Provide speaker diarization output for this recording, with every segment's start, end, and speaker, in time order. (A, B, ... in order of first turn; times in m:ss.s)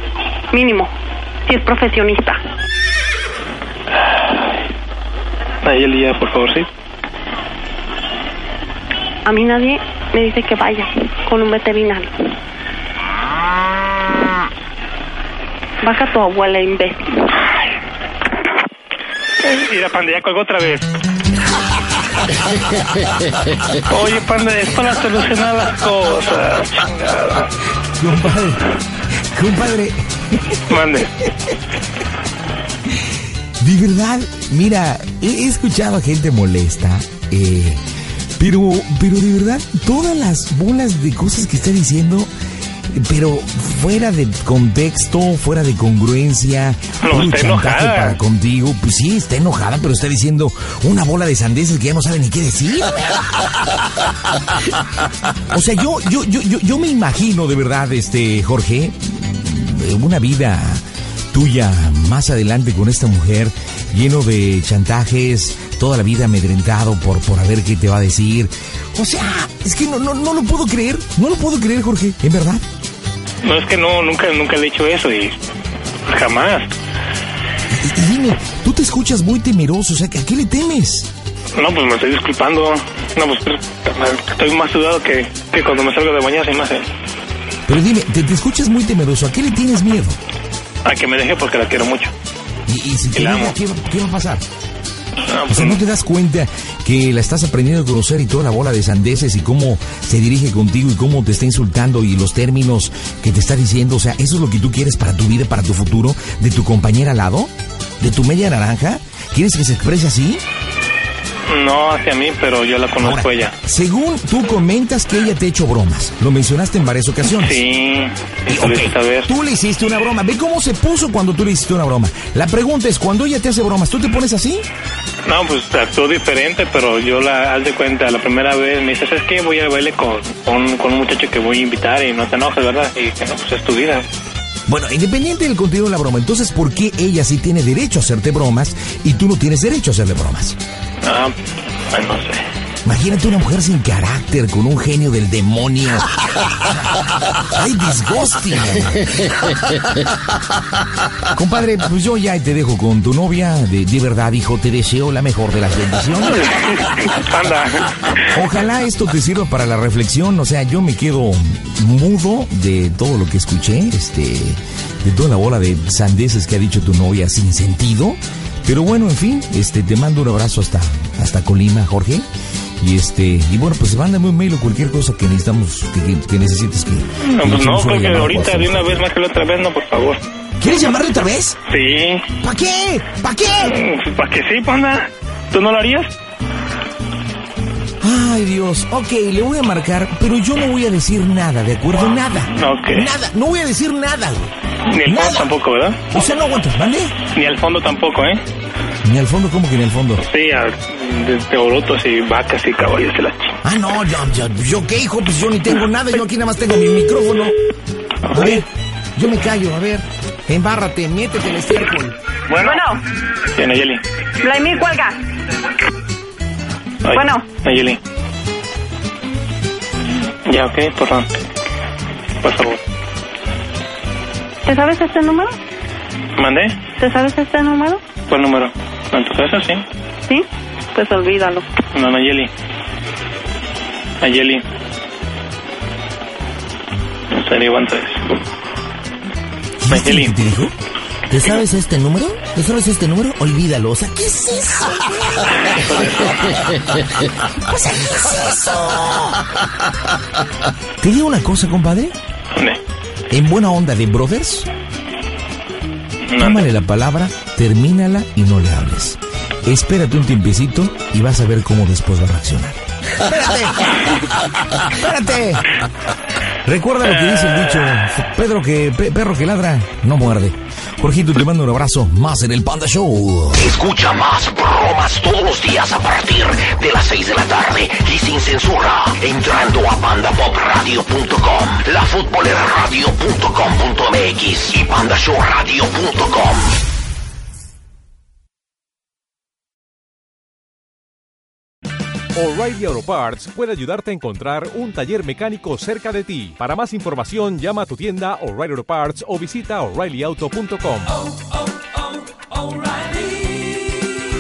0:00.5-0:00.9 A
0:01.5-0:02.4 A
0:04.0-0:04.5 B
0:05.6-0:06.7 B
0:09.3-0:12.3 A
0:15.8-0:17.3 A
0:19.4-0:20.9 B
0:23.7-0:27.5 B
0:28.0-0:31.6 C
0:30.7-0:31.1 B
0:32.8-0:37.8 C
0:38.4-0:42.3 C
0:42.9-0:53.7 C
0:47.0-0:48.2 B
0:54.5-1:12.6 C
1:13.4-1:15.4 B
1:16.1-1:16.7 B
1:17.7-1:21.1 C
1:21.6-1:26.9 B
1:27.7-1:30.2 C
1:30.8-1:32.1 B
1:32.7-1:34.4 C
1:33.1-1:33.6 B
1:35.2-1:35.8 B
1:35.5-1:50.4 C
1:51.5-1:53.6 B
1:53.0-1:57.6 C
1:57.3-1:59.3 B
1:58.5-2:04.7 C
2:05.3-2:14.1 B
2:14.7-2:20.6 C
2:21.0-2:22.4 B
2:22.8-2:26.1 C
2:27.4-2:29.8 C
2:31.3-2:36.5 C
2:36.3-2:38.2 B
2:38.3-2:52.3 C
2:52.8-2:59.1 C
2:57.2-3:00.2 B
3:00.6-3:01.6 C
3:01.7-3:02.3 B
3:02.4-3:03.8 C
3:03.6-3:06.1 B
3:08.0-3:15.5 C
3:12.5-3:13.1 B
3:14.9-3:16.0 B
3:16.1-3:17.2 C
3:17.3-3:18.4 B
3:19.0-3:20.2 C
3:20.2-3:23.6 B
3:23.6-3:27.6 C
3:28.3-3:28.6 B
3:28.3-3:32.2 C
3:32.5-3:32.8 B
3:32.6-3:33.0 A
3:33.5-3:34.0 B
3:34.4-3:35.2 A
3:37.0-3:38.0 B
3:37.1-3:37.5 A
3:40.4-3:41.3 B
3:42.4-3:42.8 B
3:44.7-3:45.5 A
3:46.4-3:46.8 B
3:47.0-3:48.0 A
3:48.3-3:49.8 B
3:50.3-3:51.8 A
3:51.9-3:52.5 B
3:54.2-3:54.6 B
3:57.3-3:58.4 B
3:59.8-4:00.8 C
3:59.9-4:00.3 B
4:01.3-4:06.5 C
4:05.6-4:06.6 B
4:07.4-4:09.5 C
4:11.0-4:12.2 C
4:12.5-4:12.8 B
4:13.3-4:14.7 C
4:16.3-4:16.7 B
4:16.4-4:25.6 C
4:26.6-4:33.7 C
4:33.6-4:46.8 D
4:52.4-5:04.1 E